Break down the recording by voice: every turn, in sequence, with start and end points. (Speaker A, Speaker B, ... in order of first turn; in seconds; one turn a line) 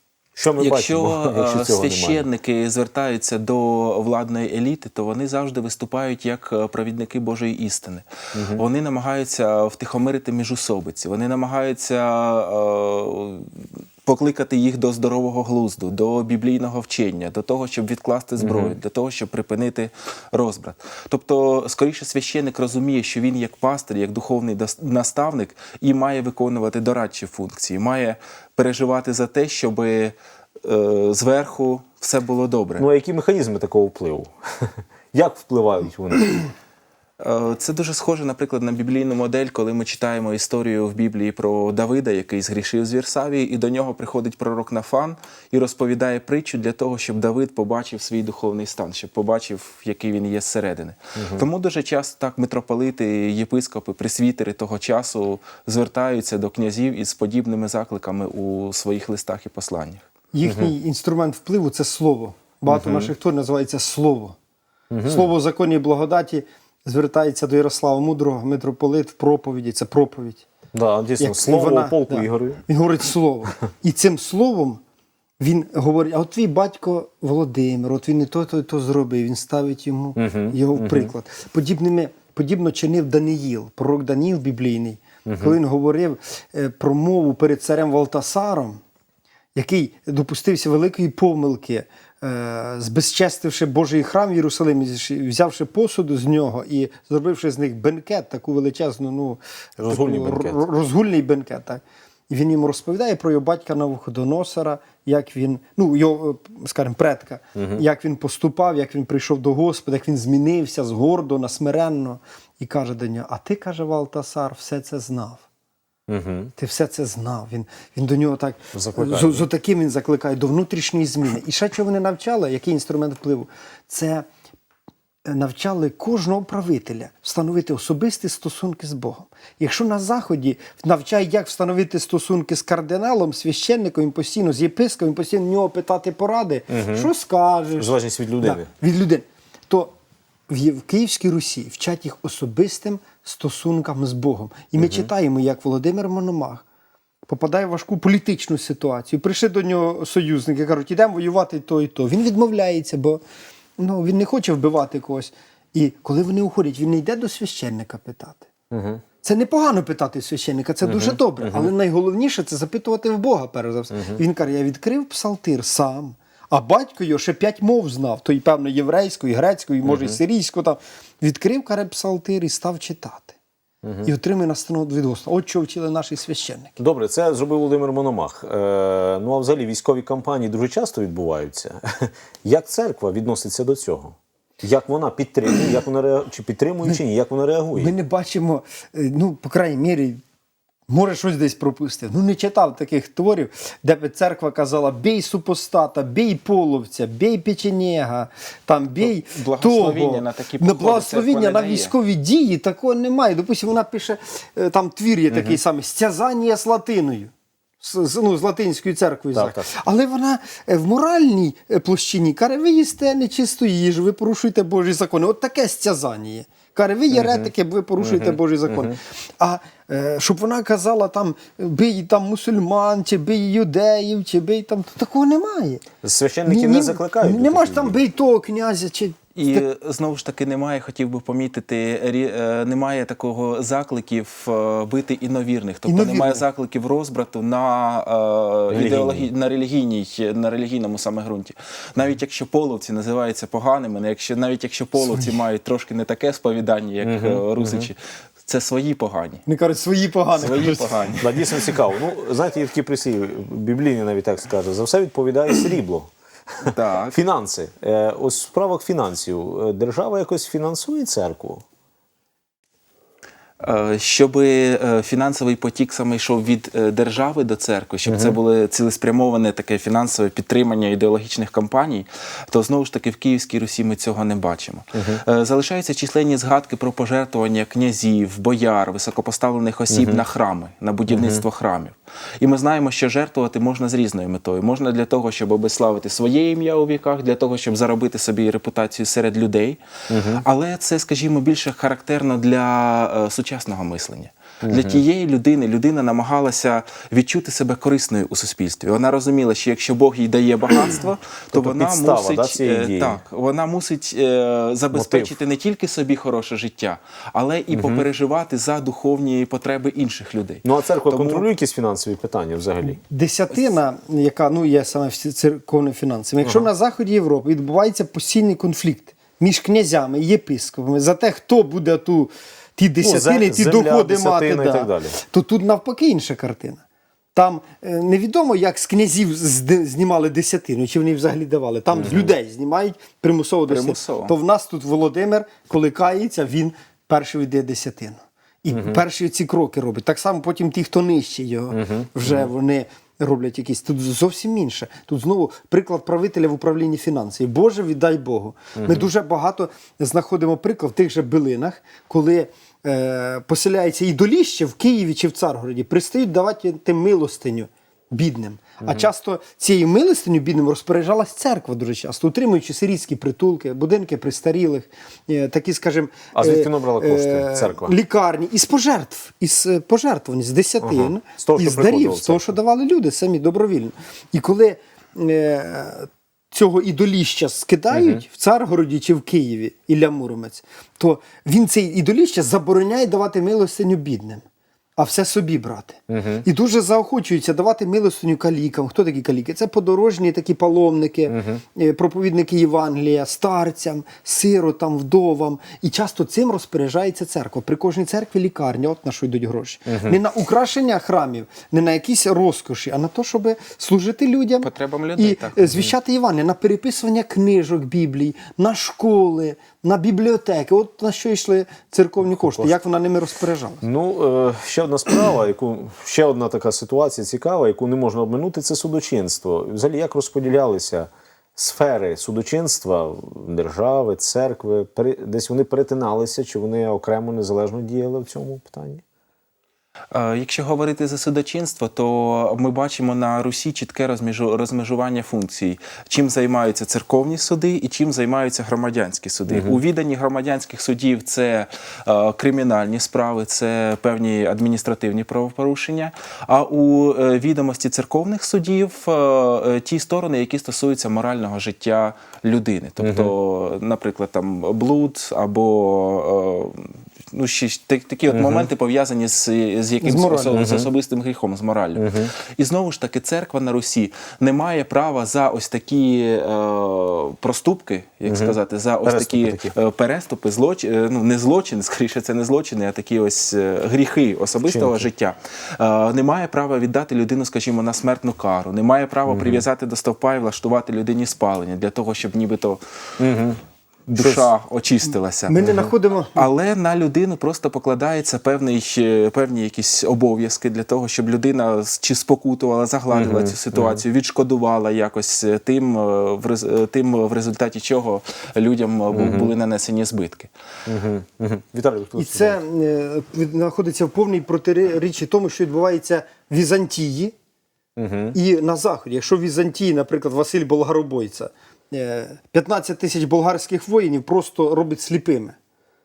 Speaker A: 0.4-2.3
Speaker B: 0.6-32.9
Speaker A: 8.3-8.6
Speaker A: 18.4-18.8
Speaker A: 32.8-36.5
Speaker B: 37.2-60.1
Speaker A: 51.2-51.5
Speaker C: 60.3-64.4
Speaker A: 60.5-60.7
Speaker A: 62.7-63.1
Speaker A: 64.9-65.3
Speaker C: 65.0-70.5
Speaker A: 70.7-72.6
Speaker C: 71.2-74.8
Speaker C: 75.4-88.8
Speaker A: 80.2-81.1
Speaker A: 85.3-85.6
Speaker C: 89.5-115.5
Speaker A: 99.8-100.6
Speaker A: 107.6-107.8
Speaker A: 116.1-116.5
Speaker C: 116.6-124.3
Speaker A: 118.7-119.5
Speaker C: 125.3-139.9
Speaker A: 136.7-137.1
Speaker A: 137.8-138.7
Speaker C: 140.5-146.6
Speaker A: 144.8-145.1
Speaker C: 147.3-153.2
Speaker C: 153.8-158.5
Speaker A: 158.7-159.0
Speaker C: 159.2-173.4
Speaker A: 160.8-161.7
Speaker A: 163.9-164.2
Speaker A: 169.8-170.2
Speaker A: 173.8-174.1
Speaker C: 174.0-176.8
Speaker A: 176.8-187.9
Speaker C: 187.8-190.2
Speaker C: 190.9-225.8
Speaker B: 199.0-201.9
Speaker A: 205.3-205.6
Speaker A: 209.3-209.7
Speaker A: 217.1-219.0
Speaker A: 226.0-228.0
Speaker C: 226.5-229.7
Speaker B: 229.4-249.4
Speaker C: 235.9-236.4
Speaker A: 238.7-239.3
Speaker C: 245.0-245.4
Speaker A: 247.0-247.9
Speaker C: 249.5-251.1
Speaker B: 250.3-251.8
Speaker A: 251.2-261.6
Speaker B: 256.6-257.2
Speaker B: 263.6-289.8
Speaker A: 268.1-268.4
Speaker A: 274.9-275.2
Speaker A: 279.9-280.2
Speaker A: 281.1-281.4
Speaker A: 290.1-290.4
Speaker B: 290.4-311.4
Speaker A: 294.6-295.0
Speaker A: 301.5-303.2
Speaker A: 304.9-305.4
Speaker A: 307.7-308.1
Speaker A: 310.6-313.0
Speaker C: 313.0-326.8
Speaker A: 316.4-316.7
Speaker A: 323.0-325.2
Speaker C: 327.4-384.4
Speaker A: 331.9-332.3
Speaker B: 333.7-334.3
Speaker A: 338.7-339.0
Speaker A: 341.7-342.5
Speaker A: 348.8-349.1
Speaker A: 366.3-367.9
Speaker A: 370.8-372.6
Speaker A: 377.9-378.2
Speaker C: 385.0-413.8
Speaker A: 386.1-386.5
Speaker A: 391.3-391.6
Speaker A: 399.9-400.2
Speaker B: 404.6-405.7
Speaker A: 412.4-412.8
Speaker A: 413.8-429.0
Speaker B: 430.1-482.8
Speaker A: 439.5-439.8
Speaker A: 453.0-453.3
Speaker A: 458.3-458.7
Speaker C: 460.0-460.6
Speaker A: 460.5-460.9
Speaker A: 462.0-462.3
Speaker A: 468.3-469.7
Speaker A: 474.6-475.1
Speaker A: 479.3-479.7
Speaker A: 483.2-483.6
Speaker B: 484.1-485.7
Speaker A: 484.1-484.5
Speaker C: 485.5-486.4
Speaker A: 485.6-485.9
Speaker B: 486.4-500.5
Speaker A: 493.1-494.0
Speaker A: 499.1-499.5
Speaker A: 500.9-502.6
Speaker C: 502.2-507.3
Speaker A: 508.0-508.4
Speaker C: 508.3-515.6